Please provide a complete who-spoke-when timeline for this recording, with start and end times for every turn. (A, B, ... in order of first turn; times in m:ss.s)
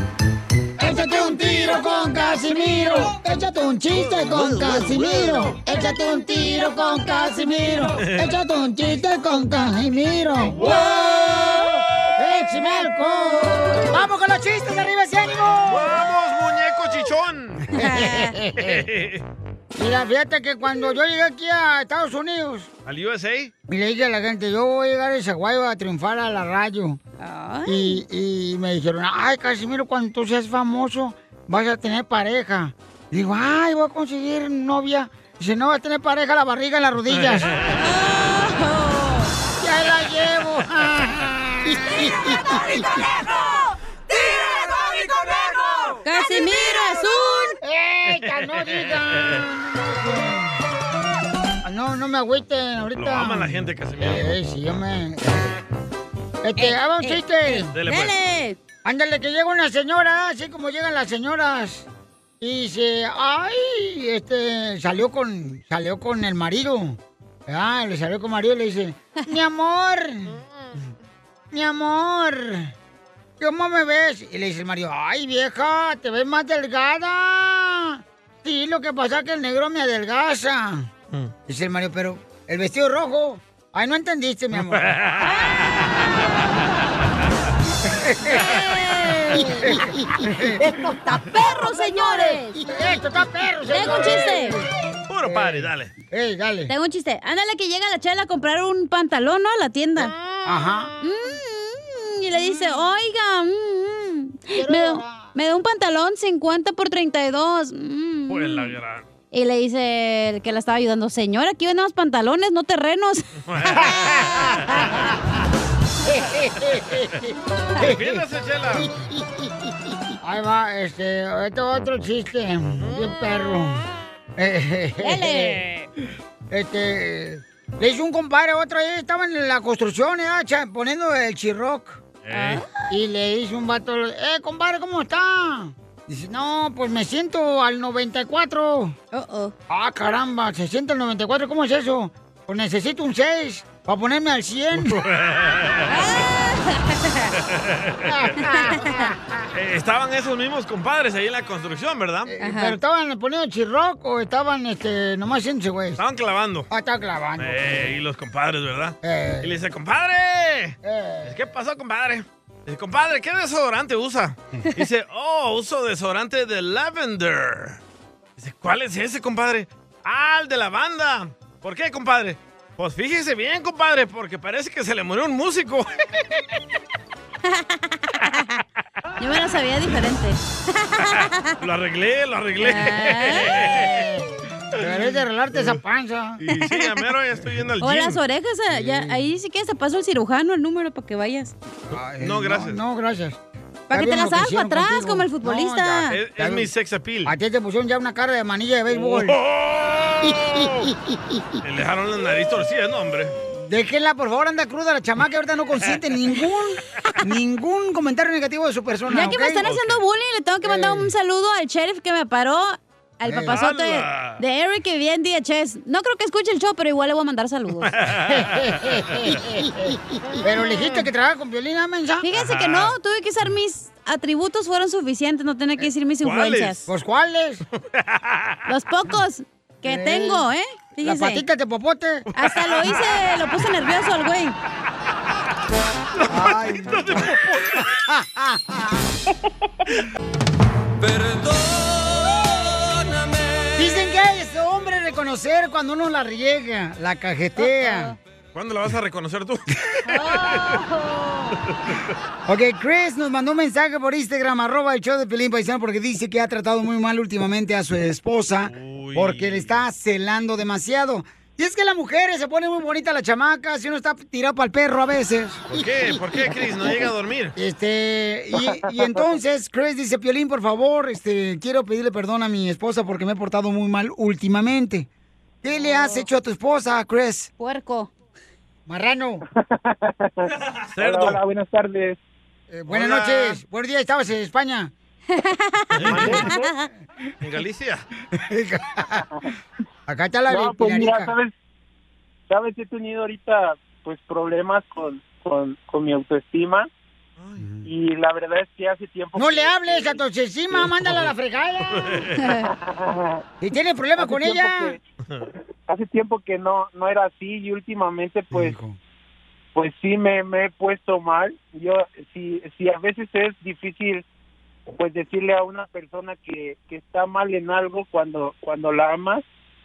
0:00.8-0:11.6 A
0:02.7-0:03.1 B
0:06.4-0:07.7 B
0:08.0-0:08.4 C
0:10.6-0:14.0 B
0:12.2-0:16.0 A
0:15.7-0:17.7 C
0:17.7-0:18.8 A
0:17.7-0:18.4 B
0:18.6-0:19.2 C
0:19.8-0:22.7 A
0:22.9-0:23.5 C
0:23.7-0:27.0 A
0:27.2-0:28.0 B
0:27.6-0:37.5 A
0:37.8-0:39.3 B
0:39.6-0:42.8 A
0:46.0-0:47.6 B
0:47.6-0:50.5 A
0:48.1-0:49.4 C
0:51.6-0:55.6 A
0:53.0-0:54.4 C
0:56.4-0:57.7 A
0:56.6-0:58.6 B
0:57.7-0:58.1 C
0:58.8-1:01.9 A
1:02.4-1:10.4 A
1:10.3-1:10.7 C
1:11.5-1:12.7 A
1:13.4-1:20.9 A
1:21.5-1:25.0 A
1:24.7-1:25.8 C
1:25.2-1:25.6 B
1:27.8-1:28.6 A
1:28.4-1:29.9 B
1:29.3-1:30.6 A
1:31.0-1:32.7 B
1:32.1-1:34.7 A
1:33.7-1:34.6 B
1:35.1-1:35.9 C
1:35.2-1:36.7 A
1:36.7-1:40.4 B
1:40.4-1:41.0 A
1:41.0-1:48.8 B
1:44.5-1:45.3 A
1:48.3-1:49.1 C
1:49.3-1:53.3 B
1:53.5-1:55.1 C
1:53.8-1:54.6 A
1:56.1-1:57.2 A
1:57.8-1:59.1 C
1:57.8-1:58.2 A
2:00.2-2:03.8 A
2:02.8-2:03.1 C
2:04.4-2:05.6 A
2:05.0-2:05.9 B
2:06.5-2:12.0 A
2:12.2-2:12.6 C
2:12.3-2:12.8 B
2:12.9-2:19.0 A
2:19.1-2:19.5 B
2:19.7-2:25.0 A
2:24.9-2:26.1 C
2:25.9-2:27.3 B
2:27.5-2:28.4 C
2:28.1-2:29.2 A
2:28.4-2:29.1 B
2:29.5-2:32.3 C
2:32.3-2:36.0 A
2:32.4-2:32.8 B
2:36.0-2:36.7 C
2:36.7-2:37.9 A
2:37.4-2:47.8 C
2:39.0-2:39.6 A
2:40.8-2:41.4 A
2:48.4-2:55.9 C
2:57.5-2:58.3 B
2:59.2-3:01.5 B
3:01.6-3:04.1 C
3:02.6-3:03.6 B
3:03.5-3:04.2 A
3:04.7-3:06.4 A
3:04.8-3:05.7 C
3:06.4-3:08.2 C
3:07.8-3:11.5 B
3:08.7-3:09.3 A
3:11.9-3:13.4 A
3:12.2-3:12.8 C
3:13.9-3:16.2 B
3:13.9-3:16.7 A
3:16.1-3:17.3 C
3:17.2-3:19.4 A
3:19.0-3:20.9 C
3:21.6-3:23.4 C
3:23.5-3:29.7 A
3:29.1-3:38.0 B
3:29.6-3:30.0 C
3:30.6-3:31.1 A
3:33.3-3:33.5 A
3:33.5-3:34.4 C
3:37.9-3:39.4 C
3:38.3-3:42.3 A
3:42.2-3:46.8 B
3:42.3-3:42.9 C
3:46.2-3:46.9 C
3:46.9-3:47.6 A
3:47.9-3:48.6 C
3:48.7-3:51.4 B
3:49.8-3:50.5 A
3:51.0-3:52.3 A
3:52.3-3:53.2 C
3:52.4-3:54.6 B
3:56.2-3:58.0 C
3:56.3-3:59.0 A
4:03.7-4:08.1 A
4:07.6-4:08.2 B
4:08.6-4:10.8 C
4:10.1-4:11.6 B
4:11.7-4:12.0 C
4:12.5-4:25.8 A
4:18.7-4:19.8 C
4:25.7-4:27.6 C
4:27.6-4:35.1 A
4:28.6-4:29.4 D
4:35.6-4:37.5 A
4:35.8-4:36.3 B
4:37.6-4:38.1 B
4:38.9-4:39.4 A
4:39.6-4:42.2 D
4:40.9-4:41.4 C
4:42.7-4:44.9 A
4:42.9-4:43.6 C
4:45.3-4:46.9 B
4:46.0-4:46.5 C
4:46.1-4:46.7 D
4:47.4-4:48.1 C
4:48.4-4:49.2 A
4:50.1-4:51.3 A
4:50.5-4:51.5 D
4:52.5-4:56.9 D
4:57.4-4:57.6 C
4:57.6-4:57.9 A
4:57.8-5:00.2 D
4:59.4-5:02.1 A
5:01.8-5:02.6 C
5:02.4-5:02.7 B
5:02.6-5:03.4 D
5:03.6-5:05.0 A
5:04.2-5:05.0 D
5:05.9-5:08.8 D
5:08.5-5:09.0 A
5:09.7-5:14.2 D
5:14.9-5:19.4 D